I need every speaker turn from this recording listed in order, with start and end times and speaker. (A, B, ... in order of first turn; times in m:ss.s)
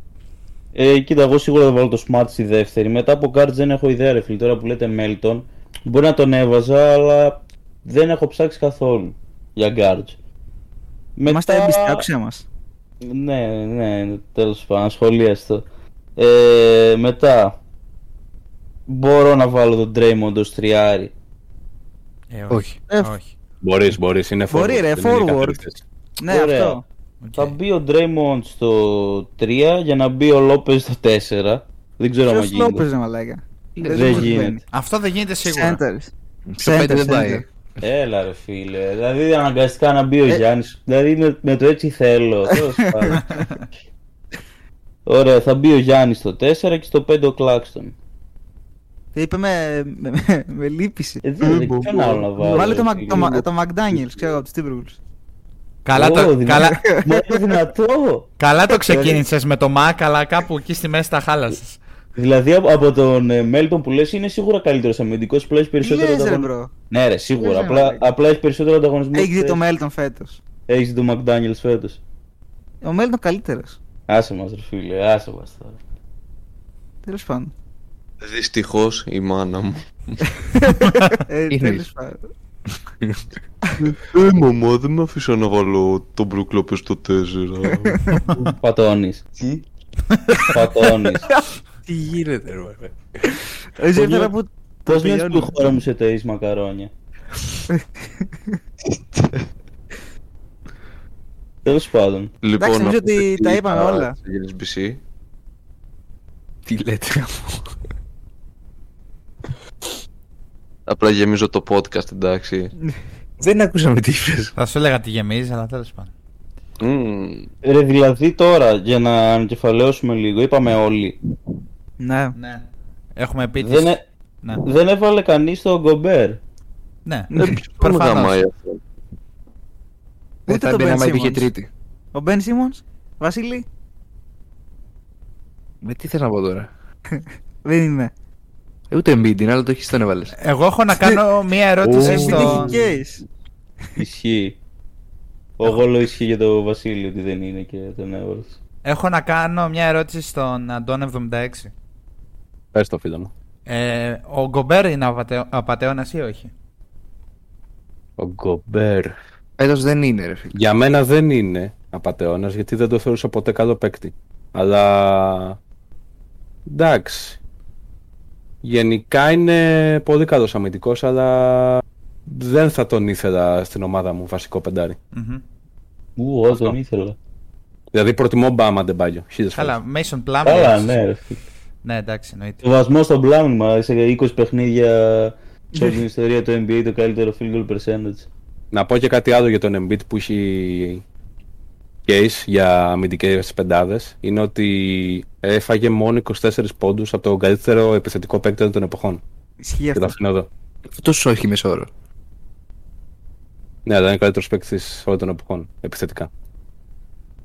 0:00.8-0:10.2 A
0:11.2-0:12.0 A
0:11.3-0:12.5 B
0:13.0-0:15.6 A
0:16.2-0:17.6 A
0:18.9-0:21.1 A
0:22.3-0:23.3 C
0:23.6-0:25.8 D
0:24.5-0:25.6 B
0:26.2-0:26.8 B
0:26.3-0:26.8 A
0:27.2-0:27.6 C
0:27.4-0:32.8 A
0:32.3-0:34.6 B
0:33.8-0:34.6 A
0:34.7-0:35.8 C
0:35.4-0:37.4 B
0:36.5-0:37.4 E
0:37.8-0:43.5 A
0:43.2-0:43.6 C
0:45.1-0:47.9 A
0:49.2-0:51.2 B
0:51.2-0:53.4 A
0:51.4-0:53.2 F
0:52.5-0:55.0 B
0:55.8-0:57.0 C
0:55.9-0:58.3 A
0:56.7-0:57.1 B
0:58.4-1:01.8 C
0:58.9-0:59.2 A
1:02.2-1:09.6 A
1:05.8-1:06.7 B
1:07.4-1:08.0 B
1:09.1-1:10.4 B
1:10.7-1:12.0 A
1:12.8-1:13.8 B
1:14.1-1:15.8 A
1:17.0-1:17.5 B
1:18.2-1:20.4 F
1:20.6-1:22.3 B
1:21.5-1:21.9 E
1:23.8-1:28.2 F
1:28.1-1:28.5 C
1:28.4-1:29.3 A
1:29.3-1:29.7 F
1:30.1-1:30.6 C
1:30.5-1:31.3 A
1:31.9-1:33.3 E
1:33.8-1:35.7 B
1:34.0-1:34.3 A
1:34.9-1:36.9 A
1:41.6-1:42.3 A
1:42.4-1:45.0 F
1:42.6-1:44.2 B
1:46.7-1:47.7 E
1:50.9-1:52.7 F
1:53.4-1:54.5 E
1:54.6-1:56.1 C
1:56.8-1:57.5 F
1:57.6-2:01.2 A
2:02.0-2:02.4 B
2:02.4-2:04.6 C
2:03.6-2:04.0 A
2:04.6-2:06.4 A
2:07.0-2:08.4 C
2:07.3-2:08.8 F
2:10.5-2:11.5 B
2:10.5-2:11.7 E
2:12.1-2:13.6 B
2:15.8-2:16.7 E
2:17.6-2:18.1 B
2:18.9-2:20.4 E
2:20.4-2:22.8 C
2:21.8-2:22.6 D
2:22.0-2:23.2 B
2:24.0-2:24.6 A
2:25.6-2:28.6 A
2:28.8-2:31.7 C
2:32.7-2:33.3 D
2:33.7-2:36.5 C
2:38.2-2:39.2 D
2:39.6-2:40.5 E
2:40.5-2:45.6 D
2:46.7-2:47.4 D
2:48.6-2:55.0 D
2:55.1-2:55.4 C
2:56.2-2:57.2 A
2:56.5-2:56.8 D
2:57.9-2:59.8 D
2:59.6-3:01.0 C
3:00.4-3:01.4 A
3:01.8-3:02.6 C
3:02.6-3:08.3 A
3:08.7-3:11.0 D
3:12.1-3:19.2 D
3:19.6-3:20.1 B
3:19.9-3:20.5 D
3:21.0-3:21.9 E
3:23.9-3:26.3 D